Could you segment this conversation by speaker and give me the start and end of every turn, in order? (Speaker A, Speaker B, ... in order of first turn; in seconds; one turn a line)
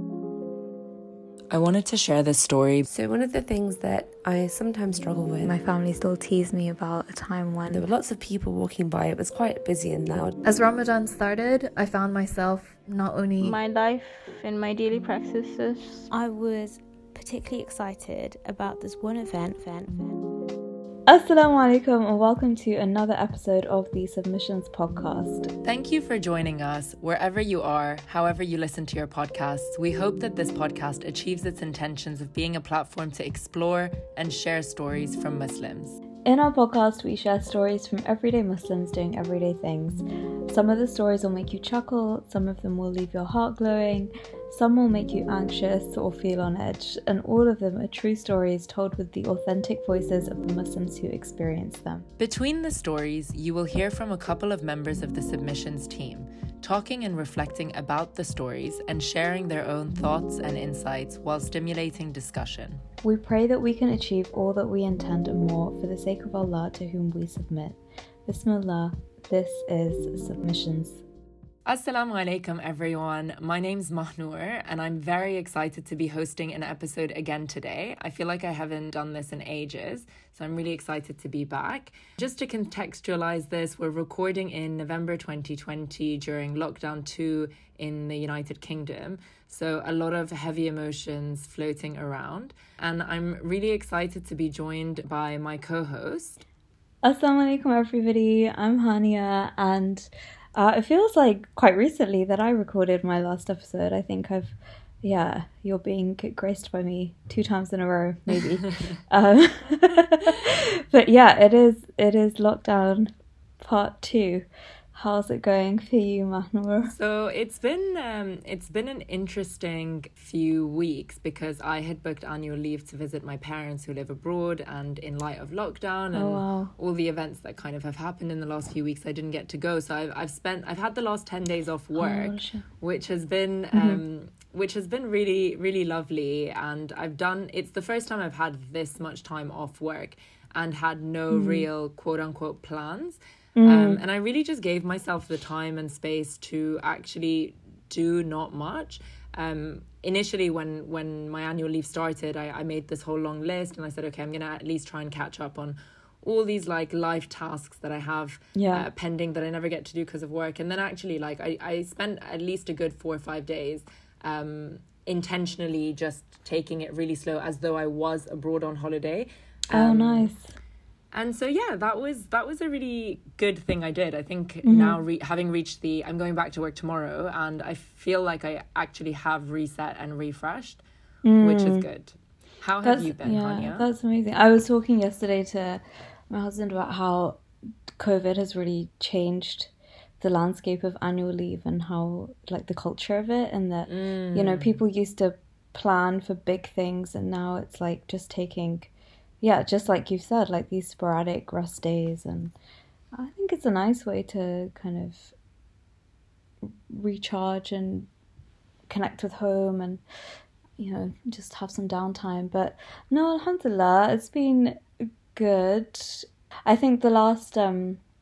Speaker A: 1.5-2.8
Speaker B: 2.9-5.5
Speaker C: 5.4-7.8
Speaker B: 7.7-10.3
Speaker D: 10.4-13.6
Speaker E: 13.4-16.1
Speaker F: 16.1-20.2
Speaker C: 21.1-25.5
Speaker A: 25.6-36.0
Speaker C: 36.2-52.0
Speaker A: 52.2-62.8
Speaker C: 63.0-71.0
Speaker A: 71.7-96.4
Speaker C: 97.0-116.9
Speaker A: 108.3-108.9
Speaker A: 116.9-170.3
Speaker C: 126.1-126.7
Speaker C: 132.0-132.6
Speaker C: 133.7-134.0
Speaker C: 141.3-141.7
Speaker C: 143.6-144.0
Speaker C: 158.5-158.9
Speaker C: 169.7-170.5
Speaker A: 171.1-180.8
Speaker C: 174.6-175.0
Speaker C: 181.2-181.8
Speaker A: 181.4-183.9
Speaker C: 182.8-187.4
Speaker C: 187.9-202.5
Speaker A: 193.9-194.8
Speaker C: 203.1-205.3
Speaker C: 206.9-208.1
Speaker C: 208.9-210.0
Speaker C: 210.8-214.8
Speaker C: 215.3-218.0